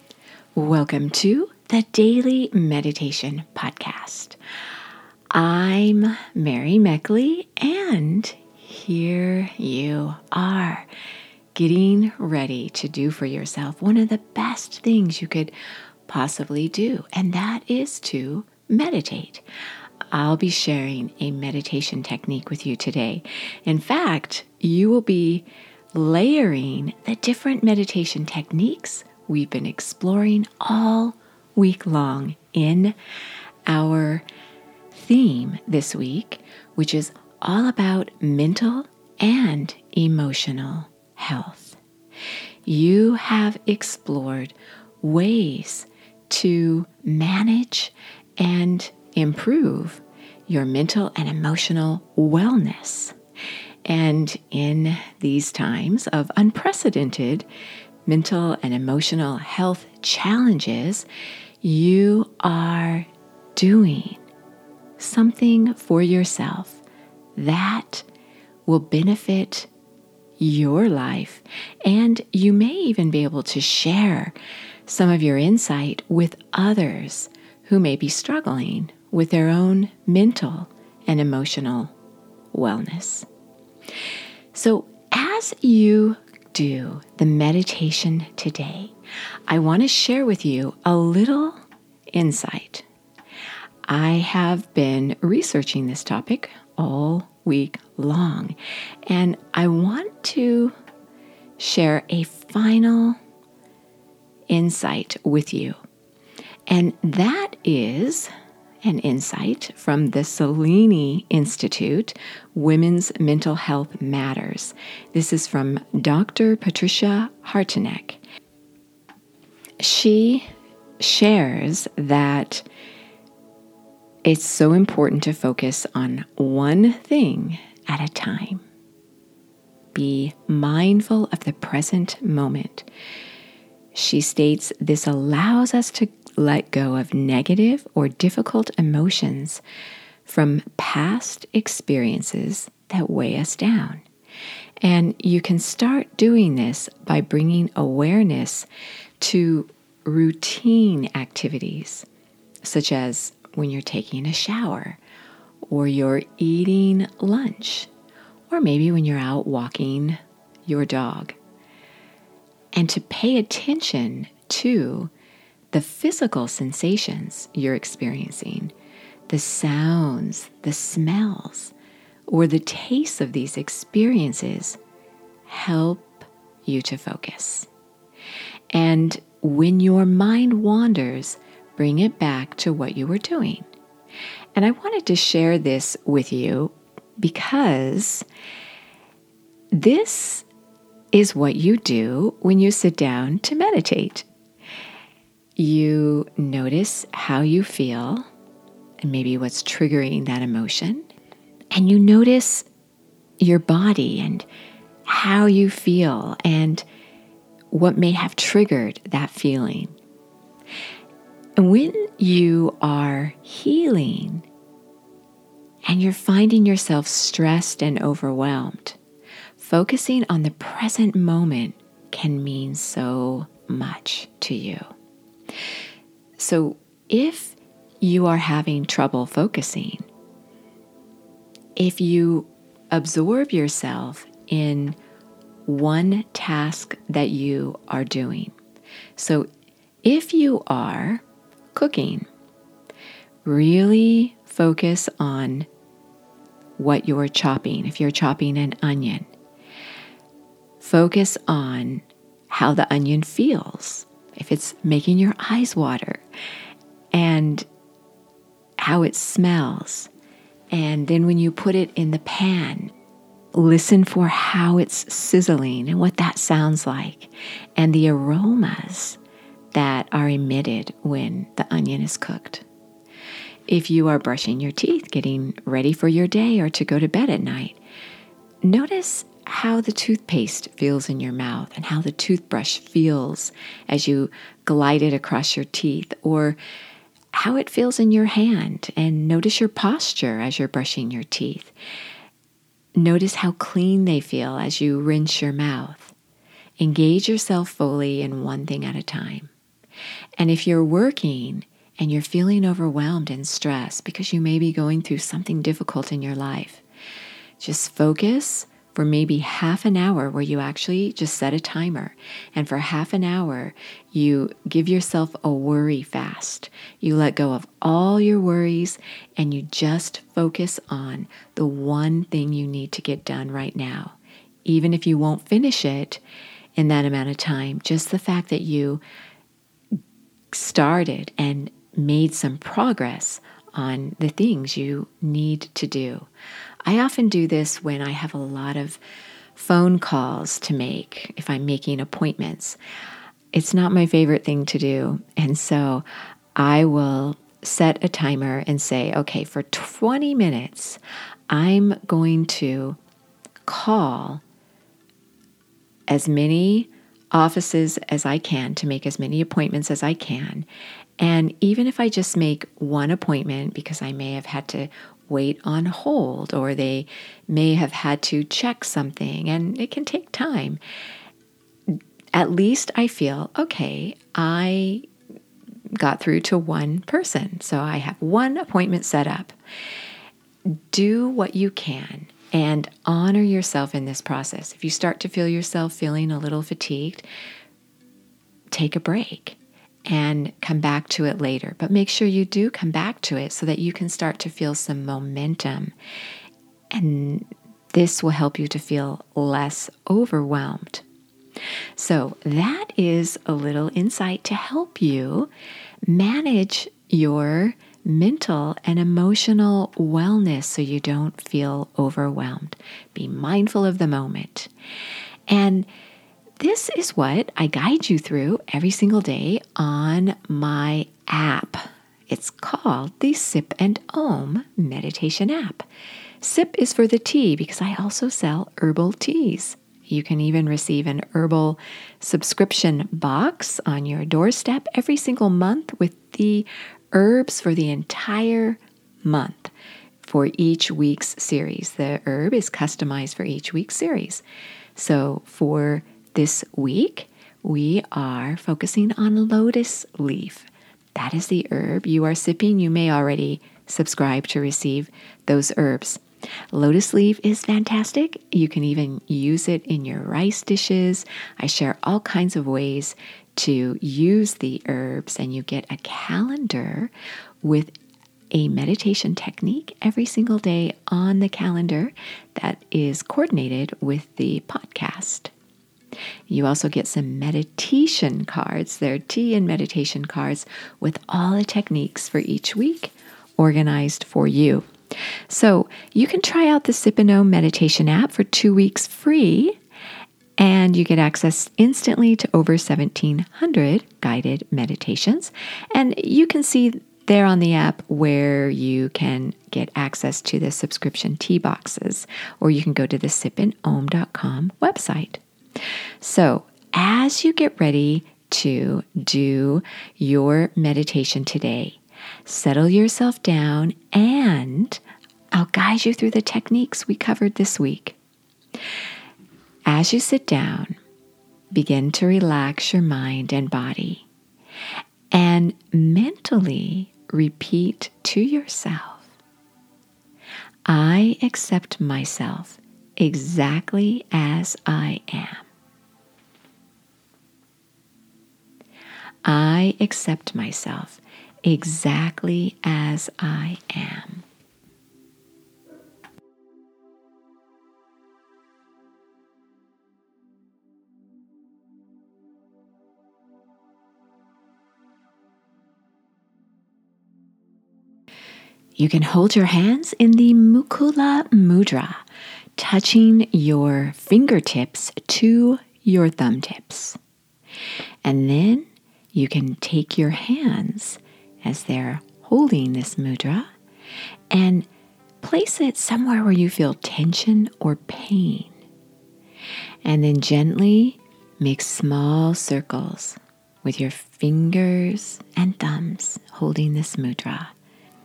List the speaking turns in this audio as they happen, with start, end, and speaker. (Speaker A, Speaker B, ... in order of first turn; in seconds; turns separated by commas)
Speaker A: 0.6-4.4, Speaker A: 5.3-10.9, Speaker A: 11.5-15.6, Speaker A: 16.1-19.4, Speaker A: 20.1-33.0, Speaker A: 33.7-34.2, Speaker A: 34.9-41.8, Speaker A: 42.6-53.1, Speaker A: 53.9-57.5, Speaker A: 58.1-61.1, Speaker A: 61.6-64.2, Speaker A: 65.0-66.8, Speaker A: 67.4-68.1, Speaker A: 68.7-69.7, Speaker A: 70.4-74.3, Speaker A: 74.9-81.9, Speaker A: 82.5-83.3, Speaker A: 84.5-88.9, Speaker A: 89.5-91.6, Speaker A: 92.1-92.9, Speaker A: 93.9-100.8, Speaker A: 101.6-103.2, Speaker A: 104.5-105.8, Speaker A: 106.7-108.3, Speaker A: 108.8-118.2, Speaker A: 119.8-122.7, Speaker A: 124.3-128.6, Speaker A: 129.9-132.9, Speaker A: 133.9-139.6, Speaker A: 140.2-144.1, Speaker A: 144.8-148.7, Speaker A: 149.2-152.1, Speaker A: 152.6-155.0, Speaker A: 155.7-157.9, Speaker A: 158.5-161.4, Speaker A: 162.7-165.1, Speaker A: 165.7-168.7, Speaker A: 169.3-171.7, Speaker A: 172.3-174.8, Speaker A: 175.5-177.7, Speaker A: 178.7-183.7, Speaker A: 184.6-188.3, Speaker A: 189.7-190.5, Speaker A: 191.1-194.3, Speaker A: 195.6-198.3, Speaker A: 199.0-201.1, Speaker A: 201.7-202.7, Speaker A: 203.4-204.5, Speaker A: 205.1-206.9, Speaker A: 207.7-210.0, Speaker A: 211.6-214.5, Speaker A: 215.9-219.0, Speaker A: 219.6-224.9, Speaker A: 226.4-230.1, Speaker A: 231.8-235.0, Speaker A: 235.7-238.6, Speaker A: 239.2-239.5, Speaker A: 240.0-242.3, Speaker A: 243.4-245.7, Speaker A: 246.8-249.3, Speaker A: 250.8-256.2, Speaker A: 257.1-257.7, Speaker A: 258.8-260.1, Speaker A: 260.7-262.9, Speaker A: 263.5-269.2, Speaker A: 269.7-272.6, Speaker A: 273.7-277.8, Speaker A: 278.6-286.6, Speaker A: 287.3-291.7, Speaker A: 293.0-296.1, Speaker A: 296.8-299.5, Speaker A: 300.4-306.8, Speaker A: 307.6-326.2, Speaker A: 326.8-329.0, Speaker A: 330.5-336.3, Speaker A: 336.9-339.0, Speaker A: 339.6-342.8, Speaker A: 343.5-353.0, Speaker A: 353.6-354.4, Speaker A: 356.1-360.7, Speaker A: 361.2-370.8, Speaker A: 371.9-375.1, Speaker A: 375.9-379.6, Speaker A: 380.7-387.3, Speaker A: 388.7-395.9, Speaker A: 396.9-401.0, Speaker A: 402.0-405.5, Speaker A: 406.1-414.7, Speaker A: 415.5-415.9, Speaker A: 416.6-425.9, Speaker A: 426.4-444.4, Speaker A: 444.9-467.9, Speaker A: 468.5-475.5, Speaker A: 476.5-484.9, Speaker A: 485.5-489.8, Speaker A: 490.6-505.4, Speaker A: 506.2-515.0, Speaker A: 515.5-518.2, Speaker A: 519.9-521.0, Speaker A: 521.7-524.3, Speaker A: 525.3-529.4, Speaker A: 530.9-535.7, Speaker A: 539.5-544.5, Speaker A: 559.0-562.2, Speaker A: 562.8-567.2, Speaker A: 568.2-573.7, Speaker A: 574.5-574.9, Speaker A: 575.4-578.8, Speaker A: 580.0-587.7